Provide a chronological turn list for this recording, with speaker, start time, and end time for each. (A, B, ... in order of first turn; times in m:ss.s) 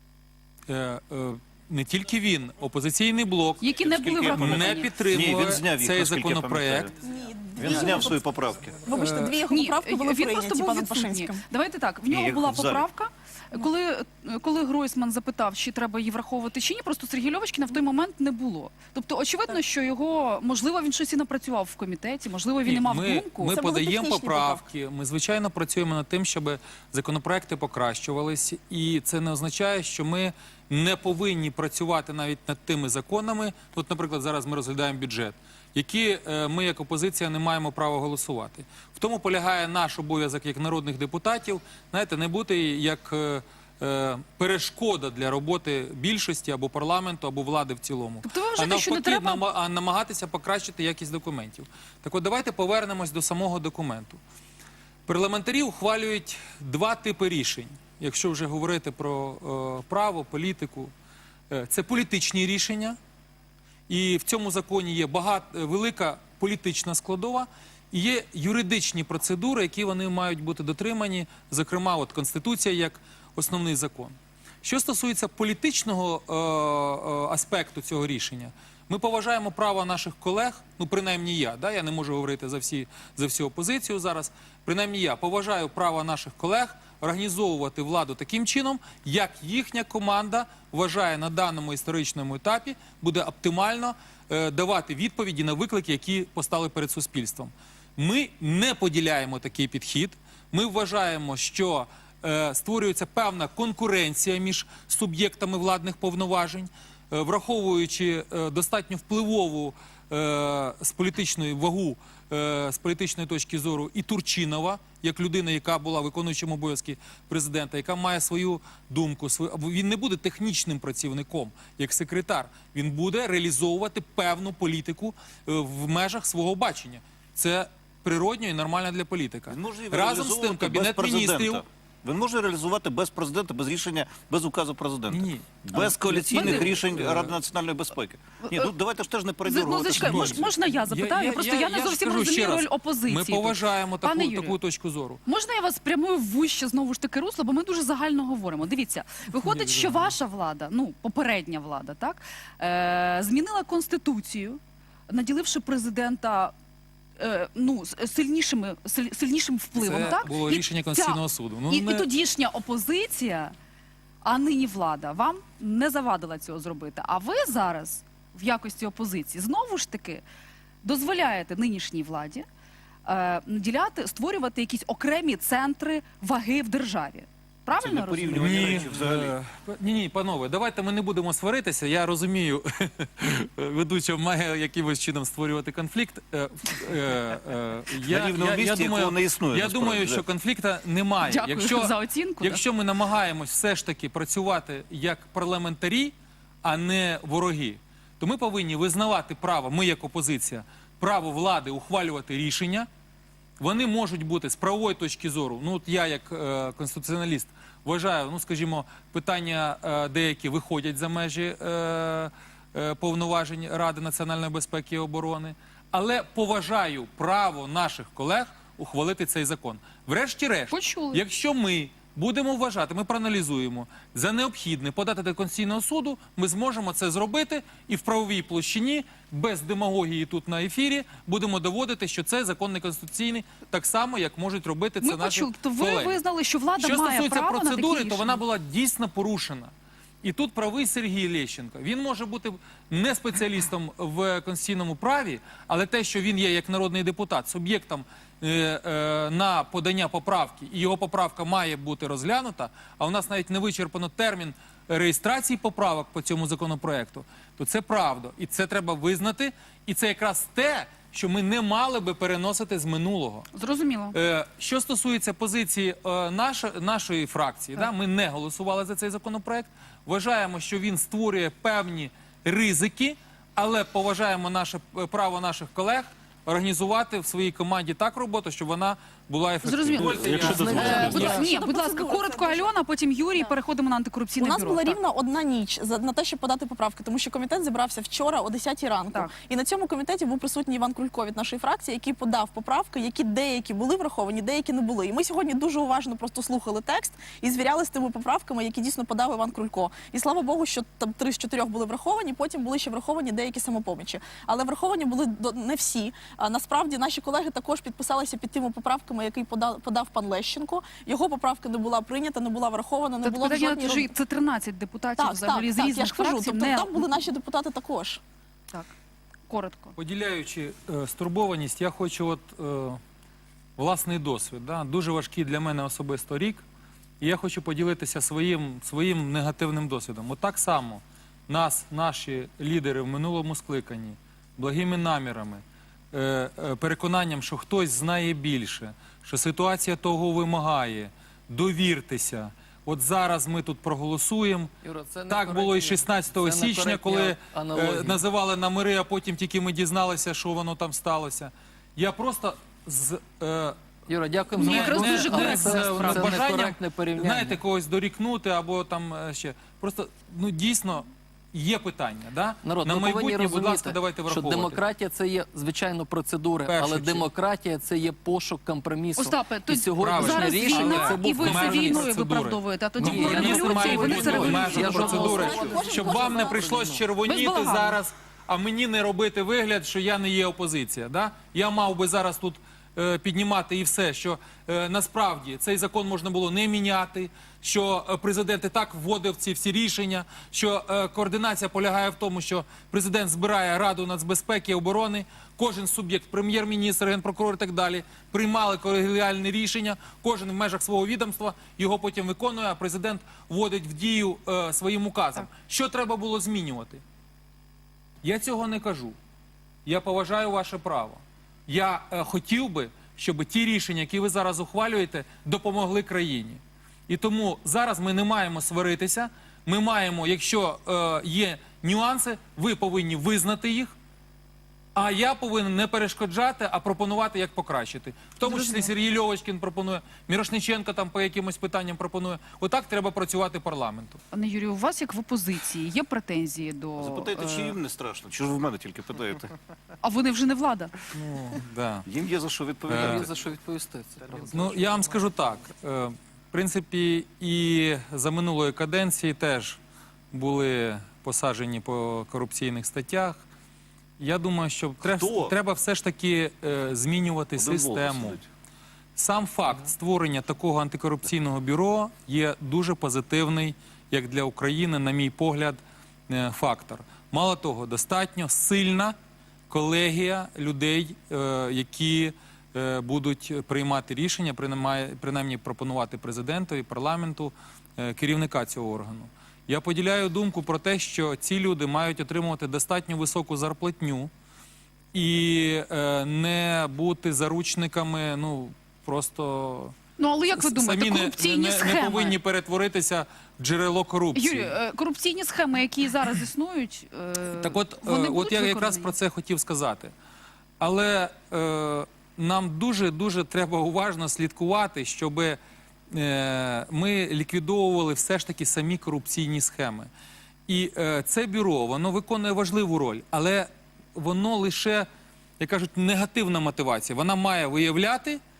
0:00.7-0:03.6 A
0:03.6-0:04.9 B
0:03.8-0:06.9 C
0:04.3-0:06.9 A
0:07.0-0:08.3 D
0:07.6-0:08.8 C
0:08.8-0:11.4 D
0:08.9-0:09.4 A
0:09.0-0:23.6 B
0:12.1-0:12.8 C
0:22.6-0:54.2 A
0:23.4-0:24.6 D
0:48.2-0:49.4 B
0:55.1-1:00.9 A
1:01.5-1:03.0 A
1:03.9-2:11.6 A
2:09.5-2:20.5 C
2:15.1-2:17.4 A
2:16.3-2:16.8 B
2:18.4-2:18.7 B
2:19.4-2:24.6 B
2:19.9-2:25.2 A
2:25.2-2:36.5 B
2:29.4-2:30.1 A
2:37.2-2:43.5 B
2:39.7-2:42.0 A
2:44.2-2:50.2 B
2:50.8-2:52.4 B
2:53.0-2:58.5 B
2:57.8-2:59.3 C
2:58.3-3:22.9 A
3:08.0-3:10.2 C
3:11.2-3:12.6 B
3:23.6-3:56.2 A
3:40.7-3:41.2 B
3:55.0-3:58.4 B
3:56.8-3:59.7 A
4:00.2-4:23.5 A
4:23.5-4:24.2 B
4:24.1-4:41.3 A
4:39.6-4:45.0 B
4:40.0-4:41.4 C
4:40.2-4:41.5 E
4:40.5-4:42.7 D
4:44.4-5:14.1 D
5:13.2-5:17.1 B
5:15.2-5:18.2 D
5:19.5-5:20.0 B
5:20.0-5:23.0 A
5:23.8-5:26.6 A
5:27.2-5:44.7 A
5:44.8-5:48.2 E
5:45.3-5:53.8 A
5:54.1-5:57.6 E
5:54.6-5:56.3 B
5:54.6-6:04.8 A
6:02.6-6:12.1 E
6:06.7-6:07.3 A
6:09.2-6:15.4 B
6:10.0-6:47.0 A
6:13.0-6:17.0 E
6:14.5-6:16.7 D
6:15.5-6:15.8 C
6:17.2-6:18.0 B
6:48.2-6:49.2 A
6:49.8-7:03.9 A
7:04.9-7:14.2 A
7:08.4-7:08.9 B
7:14.3-7:17.8 B
7:17.0-7:19.5 C
7:20.0-7:21.0 B
7:21.1-7:22.0 A
7:22.0-7:23.3 C
7:22.9-7:23.3 A
7:22.9-7:25.1 E
7:24.5-7:29.8 A
7:30.3-7:33.4 A
7:34.2-7:38.4 A
7:35.0-7:35.5 C
7:37.6-7:38.4 C
7:39.2-7:49.2 A
7:49.7-8:04.3 A
8:05.1-8:09.9 A
8:10.2-8:12.4 B
8:10.5-8:14.7 A
8:14.3-8:19.1 B
8:17.5-8:20.1 A
8:20.8-8:25.6 A
8:26.1-8:30.1 A
8:30.7-8:35.1 A
8:35.6-8:38.4 A